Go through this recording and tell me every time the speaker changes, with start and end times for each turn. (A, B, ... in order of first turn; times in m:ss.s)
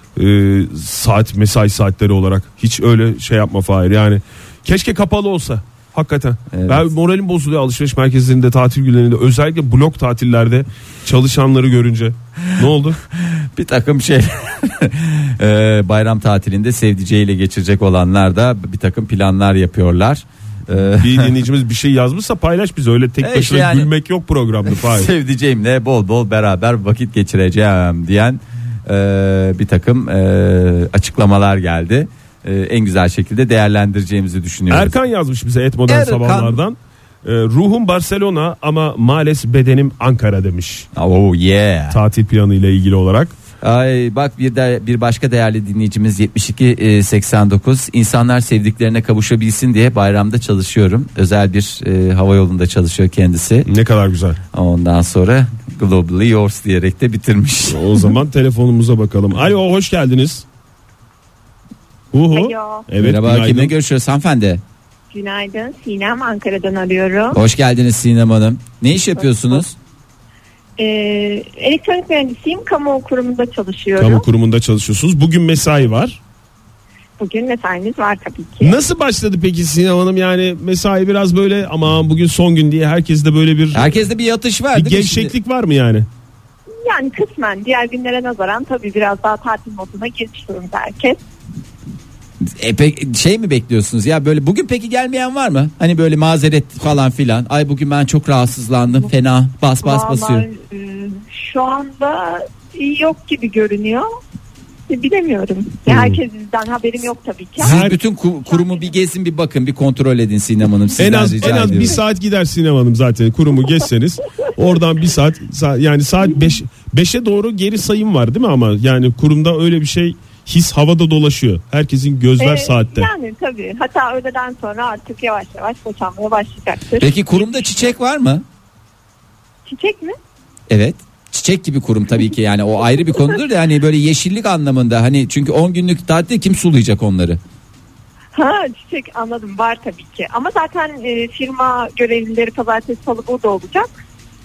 0:00.2-0:13.0 A
0:06.5-0:06.9 B
0:13.1-0:21.3 B
0:21.0-0:25.1 A
0:23.2-0:23.9 B
0:24.7-0:35.0 B
0:34.7-0:40.9 A
0:35.9-0:36.6 B
0:41.0-0:42.0 B
0:41.9-0:43.3 A
0:43.6-0:53.7 B
0:53.7-0:54.4 A
0:54.5-0:57.9 B
0:57.7-1:00.4 A
1:02.1-1:03.7 A
1:02.3-1:02.9 C
1:03.0-1:04.6 B
1:05.1-1:07.4 C
1:07.3-1:09.8 B
1:10.8-1:14.2 C
1:14.0-1:16.2 A
1:17.2-1:18.8 C
1:18.6-1:24.0 A
1:23.7-1:25.3 B
1:24.7-1:26.1 A
1:26.8-1:31.2 C
1:32.4-1:40.5 B
1:39.8-1:44.1 C
1:44.9-1:47.9 C
1:45.9-1:46.2 A
1:47.6-1:52.0 B
1:47.6-1:48.0 A
1:48.5-1:48.9 C
1:51.0-2:03.1 A
2:02.4-2:07.9 C
2:07.0-2:08.4 B
2:09.7-2:10.2 C
2:10.7-2:17.4 B
2:18.3-2:23.9 C